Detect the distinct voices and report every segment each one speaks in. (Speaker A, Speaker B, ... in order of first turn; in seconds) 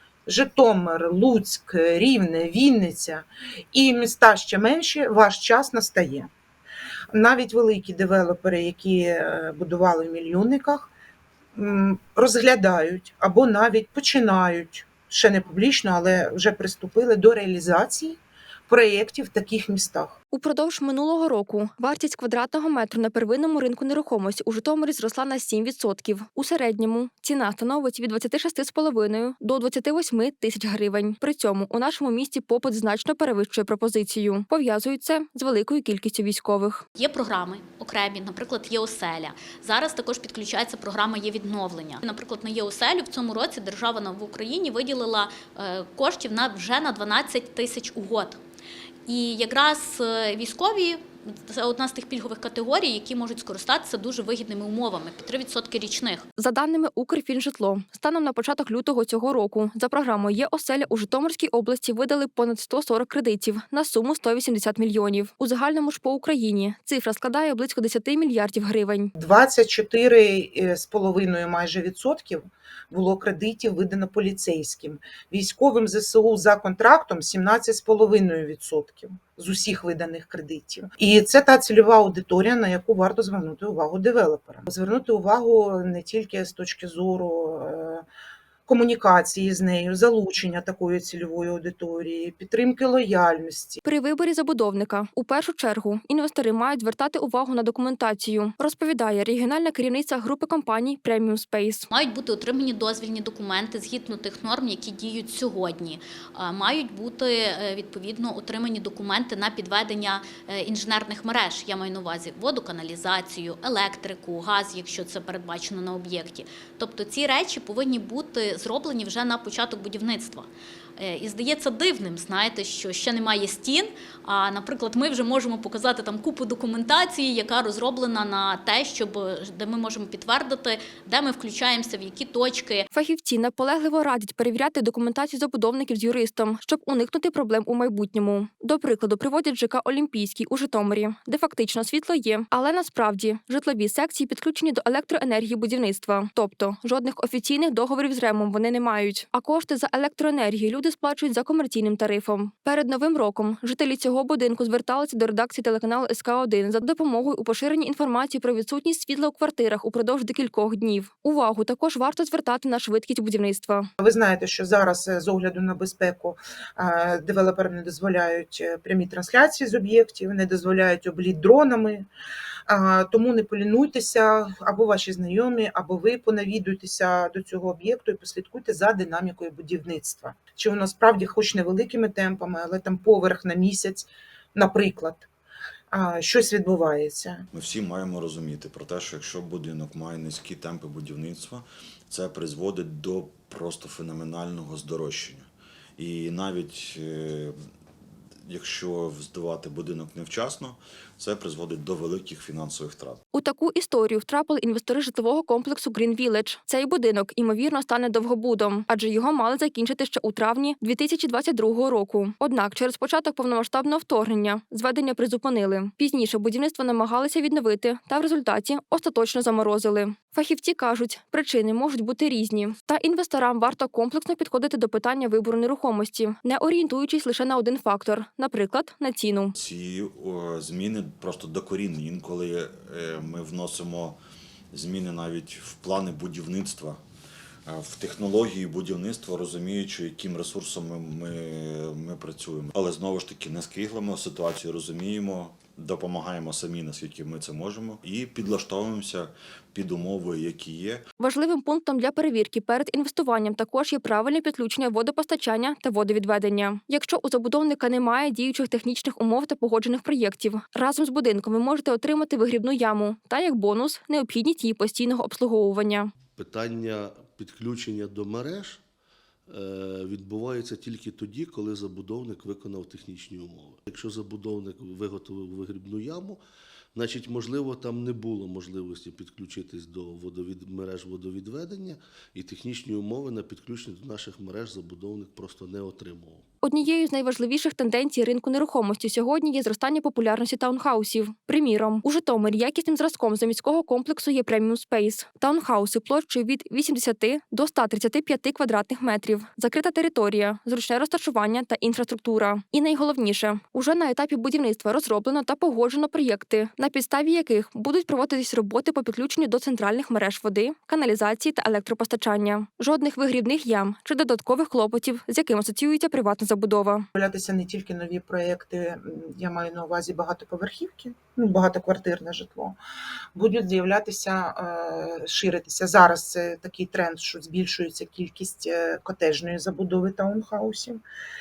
Speaker A: 0.3-6.3, 7.1-10.9, 11.6-20.2, 69.2-88.0, 88.7-93.8, 164.0-172.1, 172.7-185.3, 185.9-187.5, 317.1-322.8, 323.4-331.0
Speaker B: 20.3-36.8, 56.4-69.1, 93.8-101.9, 132.9-163.9, 203.3-229.6, 251.2-266.1, 286.6-317.1
Speaker C: 37.0-48.4, 49.1-56.2, 101.9-132.9
Speaker D: 187.5-197.6, 198.5-203.2, 229.6-234.2, 234.7-237.0, 237.7-251.0
Speaker E: 266.4-268.8, 269.5-276.4, 276.9-286.4